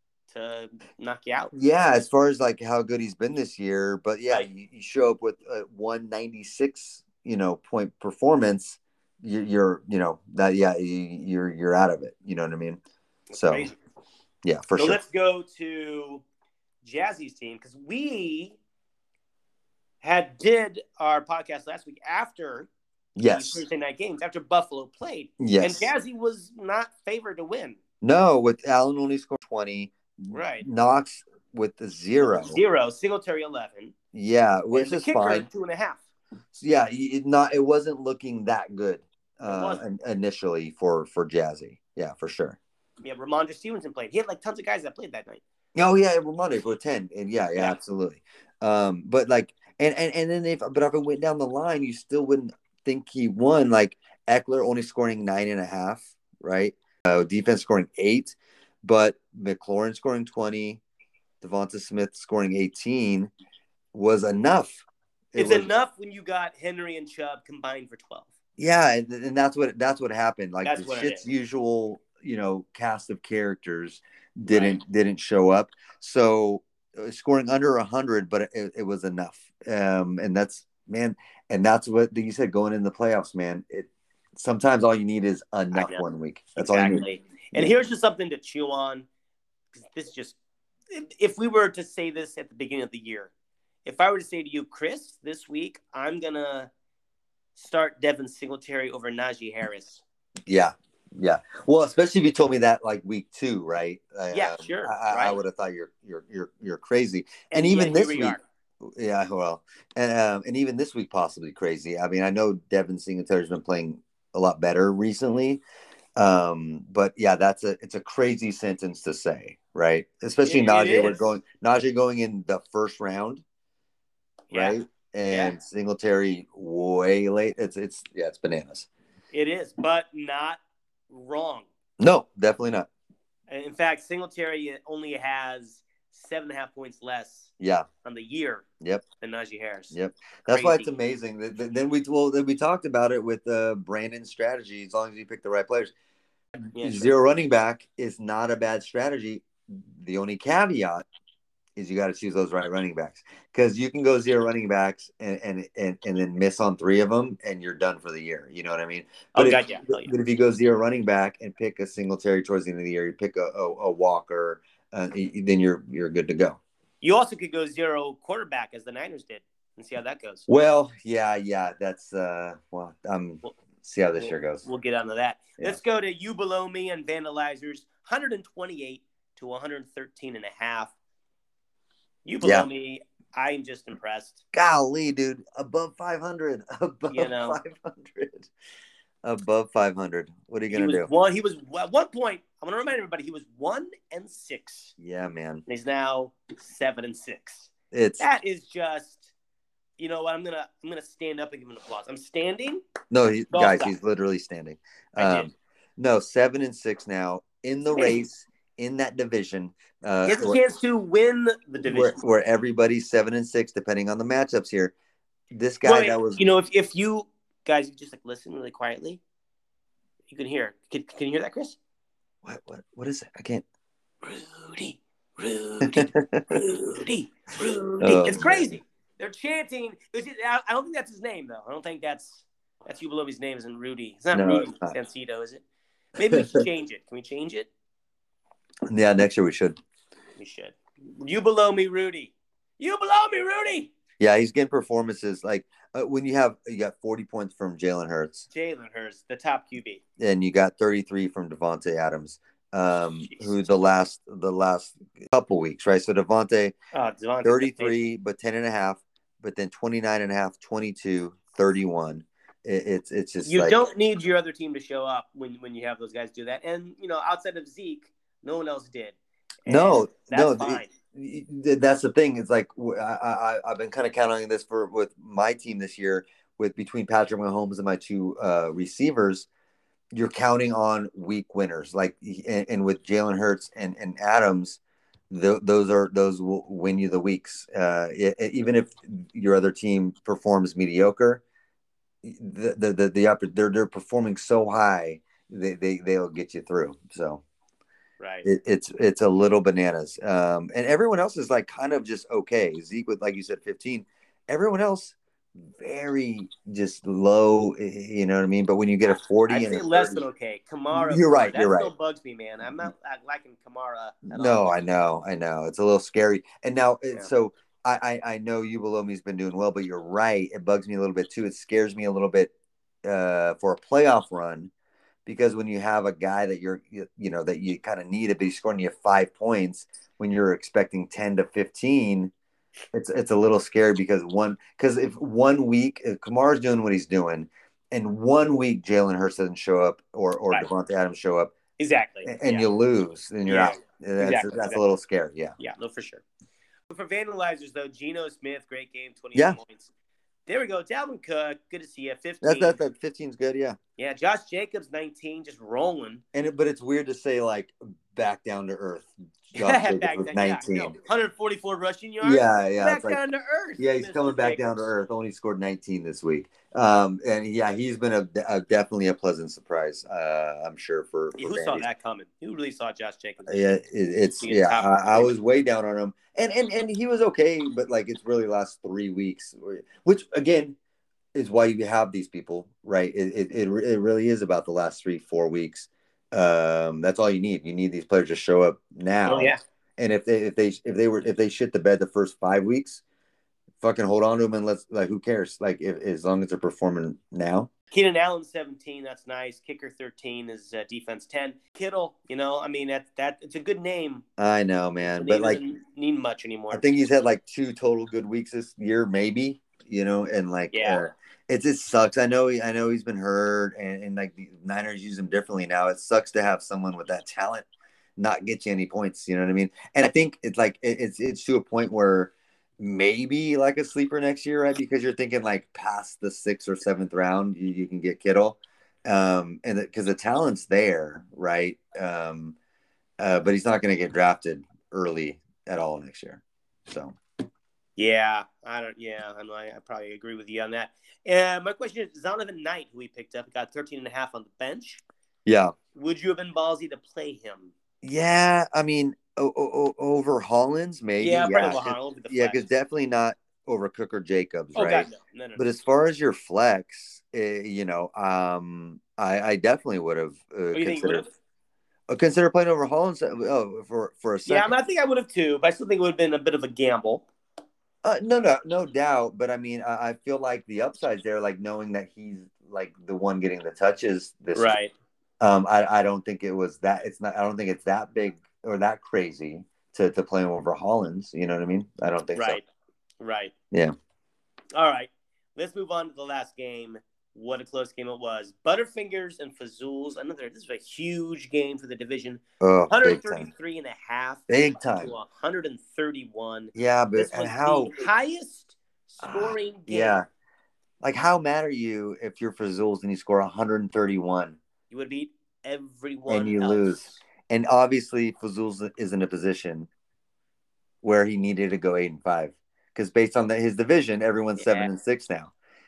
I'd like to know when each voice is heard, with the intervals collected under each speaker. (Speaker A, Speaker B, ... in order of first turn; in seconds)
Speaker A: 0.3-1.5, 13.3-13.8, 14.8-16.2, 16.8-18.6, 20.0-22.7, 23.2-27.8, 30.3-30.6, 32.2-33.9, 34.7-36.0, 39.4-39.8, 43.0-45.4, 65.3-68.3, 70.6-71.2, 74.5-74.8, 85.7-86.0, 86.5-89.1, 89.7-90.4, 90.9-93.3, 93.8-96.7, 97.5-100.0, 104.3-105.4, 107.5-108.4, 120.4-121.2, 124.5-124.8, 125.3-125.5, 129.3-131.7, 133.5-137.5, 138.0-138.6, 139.2-139.9, 140.5-140.9, 146.7-147.1, 159.3-160.1, 167.0-170.5, 174.2-180.9, 182.2-184.4, 187.1-187.6, 190.7-194.9, 195.7-199.3, 200.0-202.8, 203.5-203.9, 205.2-205.5, 210.2-212.2, 215.8-219.2, 220.3-221.8, 224.2-235.6, 236.2-237.7, 240.4-243.9, 248.5-250.0, 253.2-253.7, 256.9-258.0, 263.4-270.9, 298.2-298.5, 309.5-314.8, 341.8-342.7, 343.4-344.9, 345.6-346.2, 346.9-349.9, 350.4-352.8, 354.0-356.2, 359.5-364.8, 371.4-373.8, 374.4-375.3, 389.2-389.6, 397.9-404.2, 405.0-406.9, 410.7-411.0, 438.0-445.0, 445.9-447.7, 451.2-452.6, 454.7-455.6, 460.7-461.3, 464.4-467.2, 474.5-474.9, 482.3-482.6, 483.2-483.5, 484.7-500.2, 504.9-507.2, 514.6-514.9
Speaker B: 1.5-12.8, 13.3-13.7, 14.4-15.0, 23.1-23.6, 25.4-25.9, 28.0-32.6, 34.1-35.5, 36.5-42.6, 45.7-60.8, 61.4-63.3, 63.9-64.8, 65.3-65.7, 68.6-87.7, 100.5-115.6, 116.2-123.4, 124.5-128.9, 132.0-132.9, 137.6-137.8, 139.9-145.9, 146.7-151.0, 151.8-166.6, 170.5-174.6, 182.4-182.7, 184.5-188.5, 189.2-191.1, 195.0-195.6, 197.9-198.2, 203.1-210.6, 211.8-214.9, 215.5-216.4, 222.4-223.6, 225.8-226.6, 228.0-228.7, 234.3-234.9, 236.3-236.6, 238.9-239.8, 244.2-248.5, 250.2-256.7, 257.4-263.8, 269.7-279.5, 280.1-291.4, 292.2-297.4, 298.4-305.1, 305.8-310.2, 310.9-311.9, 314.3-322.5, 323.0-324.7, 325.2-332.3, 332.9-341.5, 342.2-345.6, 352.4-353.8, 356.3-361.0, 362.2-363.2, 363.8-371.9, 373.5-380.8, 381.3-393.0, 393.8-397.7, 404.4-405.6, 406.7-432.6, 433.2-437.1, 445.4-445.7, 448.0-461.3, 462.1-464.7, 468.0-474.8, 475.4-482.6, 492.6-493.5, 494.5-495.1, 496.7-498.0, 499.2-500.2, 501.0-504.6, 506.3-509.9, 511.0-515.5